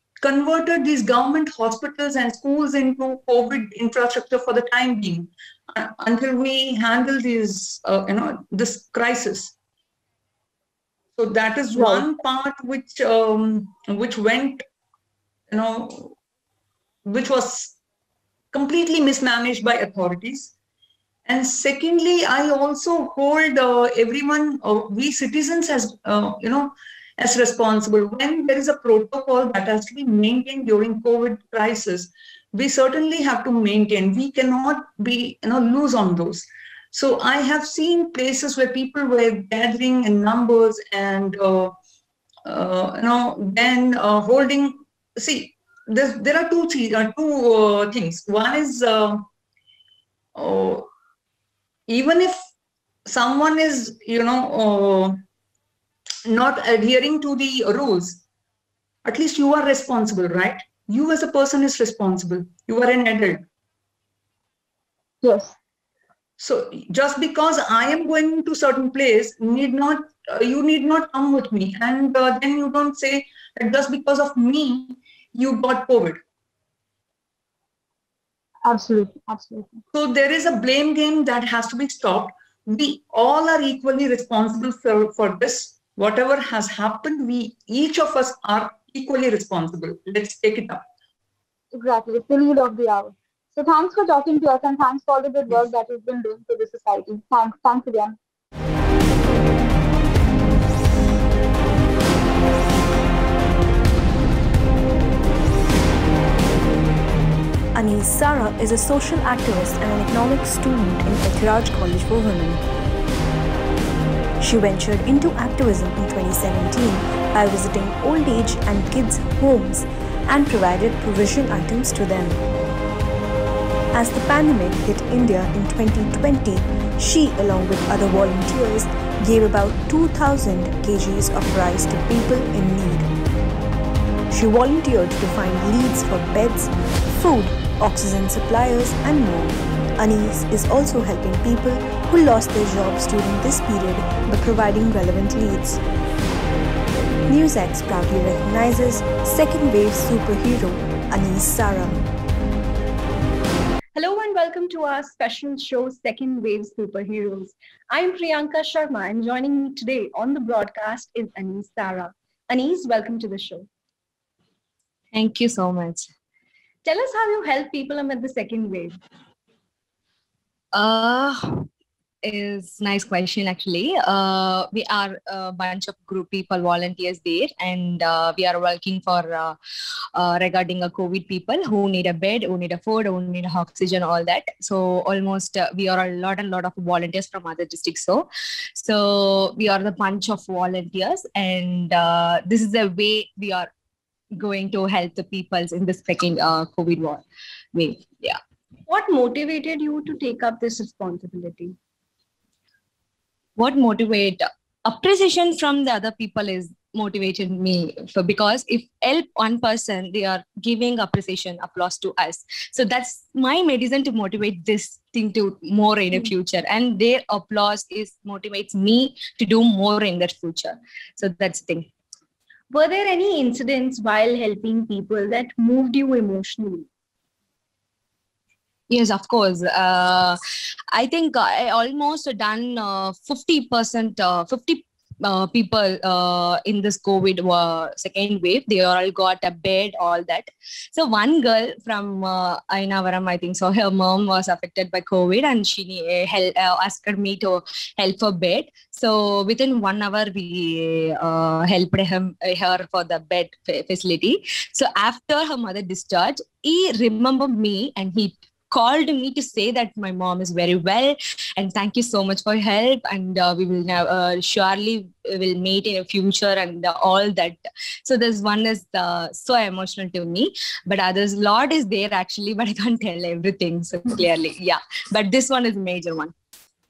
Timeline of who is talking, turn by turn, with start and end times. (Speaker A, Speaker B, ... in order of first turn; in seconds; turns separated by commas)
Speaker A: 0.2-9.5, Speaker A: 11.2-14.6, Speaker B: 11.8-12.0, Speaker A: 15.5-16.1, Speaker A: 17.0-17.8, Speaker A: 18.5-20.5, Speaker A: 21.2-41.7, Speaker A: 42.5-49.2, Speaker A: 50.3-50.9, Speaker A: 51.9-52.4, Speaker A: 53.0-55.2, Speaker A: 56.2-58.2, Speaker A: 59.0-63.4, Speaker B: 65.2-65.5, Speaker A: 66.4-76.2, Speaker B: 78.6-79.8, Speaker A: 79.9-90.8, Speaker B: 91.7-98.2, Speaker C: 107.7-112.6, Speaker C: 114.4-122.4, Speaker C: 123.9-133.1, Speaker C: 134.3-145.8, Speaker C: 147.3-152.0, Speaker D: 153.9-163.7, Speaker E: 165.1-166.1, Speaker D: 166.8-169.0, Speaker E: 170.7-171.7, Speaker E: 172.2-179.6, Speaker E: 180.1-193.7, Speaker E: 194.3-197.2, Speaker E: 197.7-198.4, Speaker D: 198.9-201.8, Speaker E: 203.6-221.9, Speaker D: 222.7-226.9, Speaker E: 228.9-230.4, Speaker E: 230.9-276.3